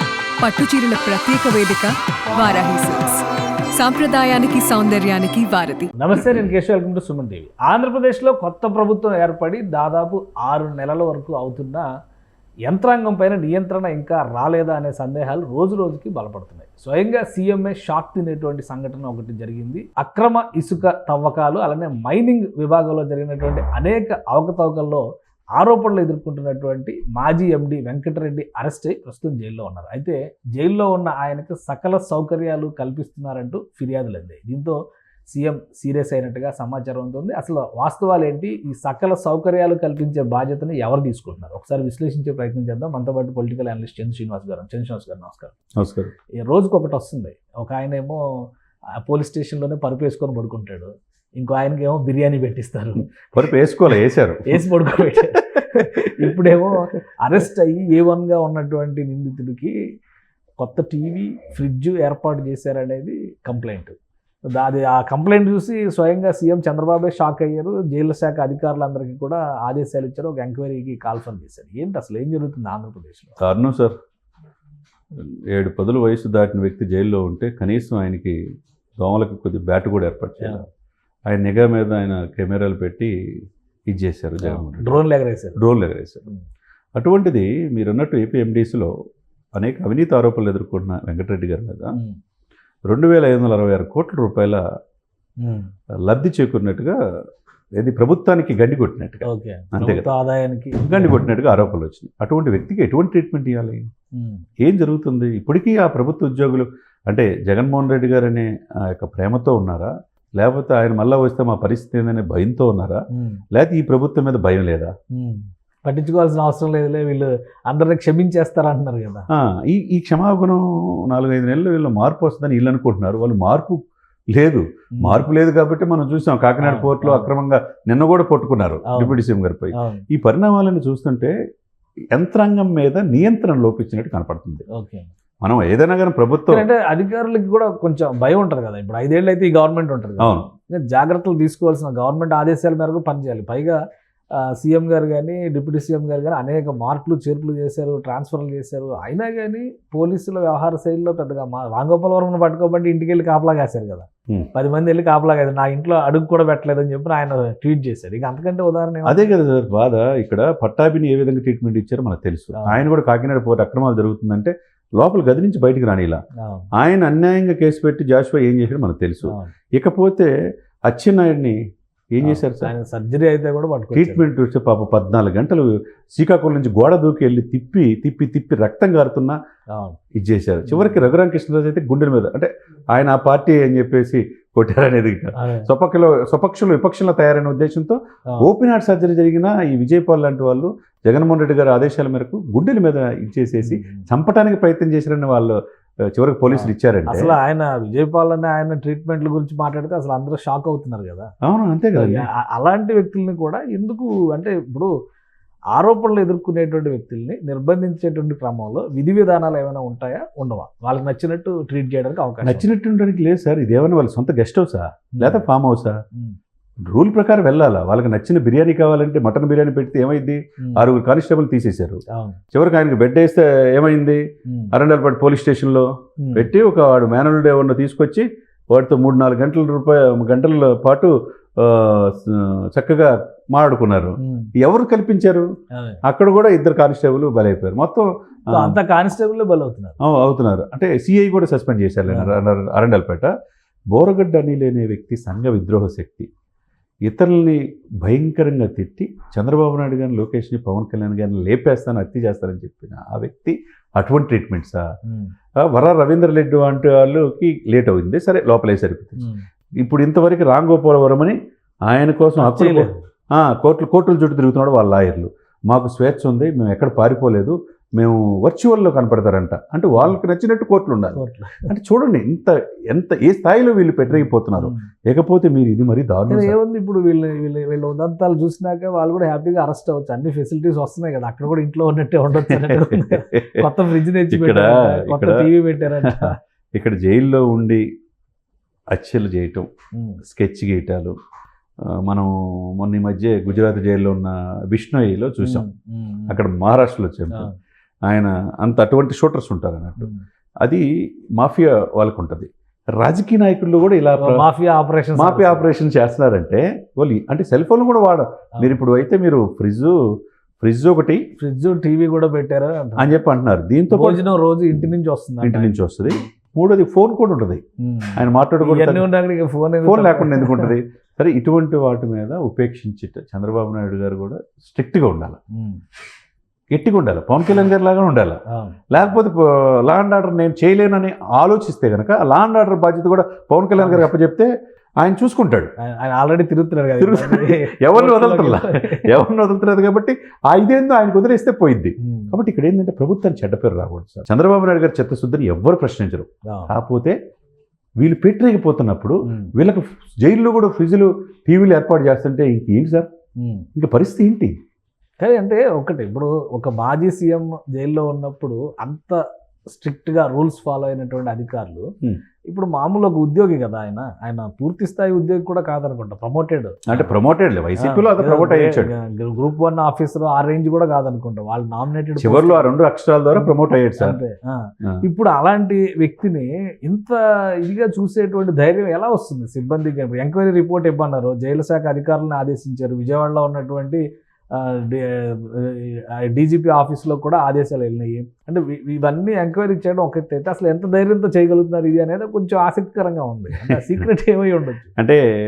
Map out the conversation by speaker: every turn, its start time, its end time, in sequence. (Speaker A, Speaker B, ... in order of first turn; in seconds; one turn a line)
Speaker A: 0.4-3.2
Speaker A: 3.7-5.9
Speaker B: 6.0-11.9
Speaker B: 12.7-25.0
Speaker B: 25.6-34.8
Speaker B: 35.3-45.5
Speaker C: 45.8-46.1
Speaker B: 46.4-48.2
Speaker B: 49.0-53.1
Speaker C: 53.3-55.2
Speaker B: 53.9-59.7
Speaker C: 55.8-56.3
Speaker B: 60.6-63.9
Speaker B: 64.5-73.4
Speaker C: 73.4-73.9
Speaker C: 75.1-78.4
Speaker C: 79.0-80.7
Speaker C: 81.3-83.1
Speaker C: 83.9-85.0
Speaker B: 84.4-85.6
Speaker C: 85.6-86.2
Speaker C: 87.0-88.9
Speaker C: 89.5-92.0
Speaker C: 92.9-94.6
Speaker B: 95.4-95.7
Speaker C: 96.1-96.9
Speaker C: 97.8-100.0
Speaker B: 99.2-101.7
Speaker C: 100.8-103.8
Speaker B: 104.2-104.5
Speaker C: 104.6-114.9
Speaker B: 113.1-113.4
Speaker B: 115.1-119.2
Speaker C: 119.3-131.3
Speaker B: 125.0-125.3
Speaker B: 126.6-127.3
Speaker B: 128.8-129.2
Speaker B: 129.7-130.0
Speaker C: 132.1-134.6
Speaker B: 134.7-135.1
Speaker C: 135.4-136.7
Speaker B: 136.5-143.8
Speaker C: 140.2-140.5
Speaker B: 144.4-159.3
Speaker C: 159.0-166.2
Speaker B: 162.5-162.8
Speaker B: 166.4-166.7
Speaker C: 166.8-170.3
Speaker B: 169.3-169.5
Speaker C: 170.9-171.6
Speaker C: 172.1-172.7
Speaker B: 172.2-174.2
Speaker C: 173.9-179.3
Speaker C: 180.2-195.6
Speaker B: 180.7-181.0
Speaker B: 185.4-185.7
Speaker B: 193.6-194.0
Speaker C: 196.1-197.4
Speaker B: 196.5-201.3
Speaker C: 201.4-202.3
Speaker B: 201.9-204.9
Speaker B: 205.7-212.7
Speaker C: 212.4-215.9
Speaker B: 215.2-215.4
Speaker C: 216.8-222.0
Speaker B: 222.1-222.4
Speaker C: 222.5-235.4
Speaker B: 224.5-224.7
Speaker B: 226.2-226.5
Speaker B: 234.2-234.5
Speaker B: 235.7-236.0
Speaker C: 236.1-238.8
Speaker B: 238.5-239.9
Speaker C: 240.0-243.3
Speaker B: 242.1-242.3
Speaker C: 243.9-246.3
Speaker C: 247.1-254.8
Speaker B: 255.0-255.3
Speaker C: 255.6-259.2
Speaker B: 259.2-259.4
Speaker C: 259.8-261.4
Speaker C: 261.9-276.6
Speaker B: 262.4-263.0
Speaker B: 271.1-271.7
Speaker B: 274.1-274.9
Speaker B: 276.3-286.3
Speaker C: 282.4-283.7
Speaker C: 284.3-287.8
Speaker C: 288.9-289.7
Speaker B: 289.9-290.2
Speaker C: 290.2-291.1
Speaker C: 291.9-295.6
Speaker B: 295.4-296.4
Speaker C: 296.3-297.5
Speaker C: 298.1-300.1
Speaker C: 301.4-302.5
Speaker C: 303.0-304.4
Speaker B: 304.2-305.7
Speaker C: 305.1-309.9
Speaker C: 310.6-311.2
Speaker B: 311.4-313.1
Speaker C: 313.0-314.9
Speaker B: 313.9-315.8
Speaker C: 315.4-317.6
Speaker B: 317.8-320.8
Speaker C: 318.2-319.0
Speaker C: 319.8-325.4
Speaker B: 325.5-325.8
Speaker C: 326.7-328.4
Speaker B: 328.5-328.8
Speaker C: 328.9-335.7
Speaker B: 333.8-334.1
Speaker B: 335.8-339.2
Speaker C: 337.0-347.1
Speaker B: 342.0-342.4
Speaker B: 346.4-346.7
Speaker C: 348.0-353.1
Speaker B: 349.3-349.5
Speaker B: 353.4-353.7
Speaker C: 353.7-354.5
Speaker B: 355.2-361.8
Speaker B: 362.5-367.1
Speaker C: 366.9-368.9
Speaker B: 367.8-372.7
Speaker C: 372.2-374.2
Speaker B: 373.3-394.9
Speaker C: 393.5-394.1